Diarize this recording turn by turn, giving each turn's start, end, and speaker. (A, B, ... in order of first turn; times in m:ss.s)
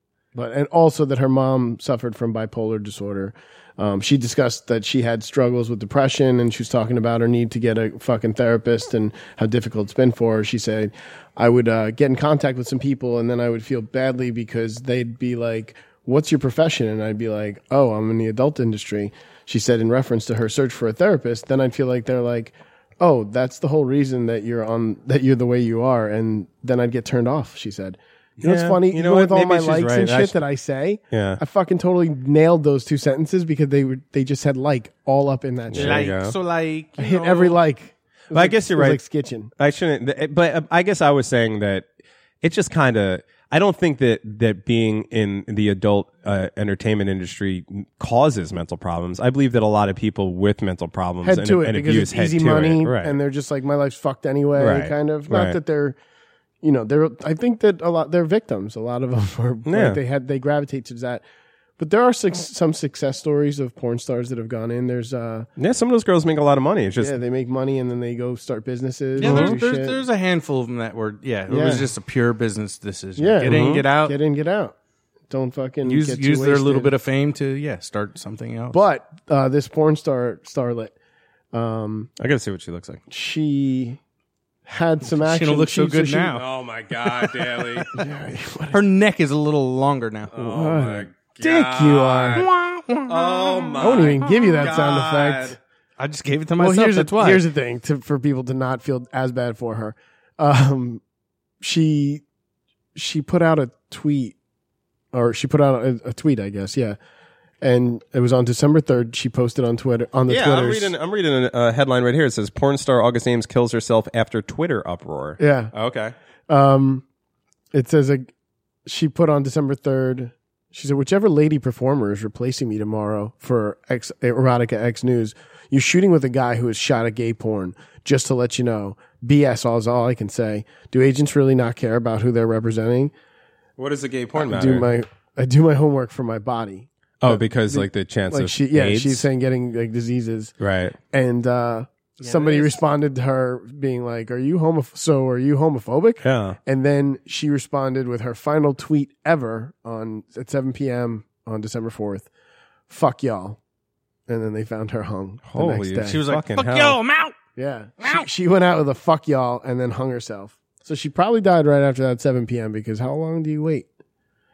0:00.4-0:36.1 A
0:28.4-0:30.4 B
0:31.1-0:31.4 B
0:35.7-0:36.4 B
0:35.7-0:37.6 C
0:37.0-0:39.5 A
0:38.3-0:39.0 B
0:39.6-0:41.9 B
0:42.4-0:53.1 B
0:51.2-0:56.0 A
0:54.6-0:55.6 B
0:56.6-1:01.2 A
0:59.7-1:00.0 B
1:01.8-1:05.5 A
1:05.6-1:07.2 B
1:07.0-1:10.0 A
1:09.2-1:14.2 C
1:09.2-1:09.6 B
1:11.5-1:11.9 A
1:13.2-1:14.7 A
1:13.4-1:13.9 B
1:15.3-1:16.9 A
1:15.8-1:18.8 C
1:18.7-1:20.9 A
1:21.5-1:22.1 A
1:22.2-1:23.0 B
1:23.1-1:24.0 A
1:24.7-1:26.3 A
1:25.1-1:26.4 C
1:26.3-1:27.9 B
1:27.9-1:28.8 A
1:28.7-1:30.8 C
1:30.3-1:32.5 B
1:30.4-1:32.5 A
1:32.4-1:34.8 C
1:33.1-1:35.6 B
1:33.8-1:35.6 A
1:36.0-1:37.5 C
1:36.6-1:41.0 A
1:41.6-1:42.2 A
1:43.0-1:44.4 A
1:45.1-1:47.0 A
1:47.6-1:51.0 A
1:50.3-1:56.1 B
1:55.4-1:55.7 A
1:56.5-1:57.0 A
1:57.7-1:58.3 A
1:58.9-2:13.1 A
2:13.8-2:14.9 B
2:14.4-2:20.5 A
2:17.2-2:19.3 B
2:20.6-2:21.0 B
2:21.1-2:32.3 A
2:22.2-2:22.8 C
2:26.2-2:26.6 B
2:32.9-2:33.6 A
2:34.3-2:36.2 A
2:35.5-2:37.0 B
2:36.1-2:37.4 C
2:37.6-2:43.9 A
2:38.0-2:38.3 C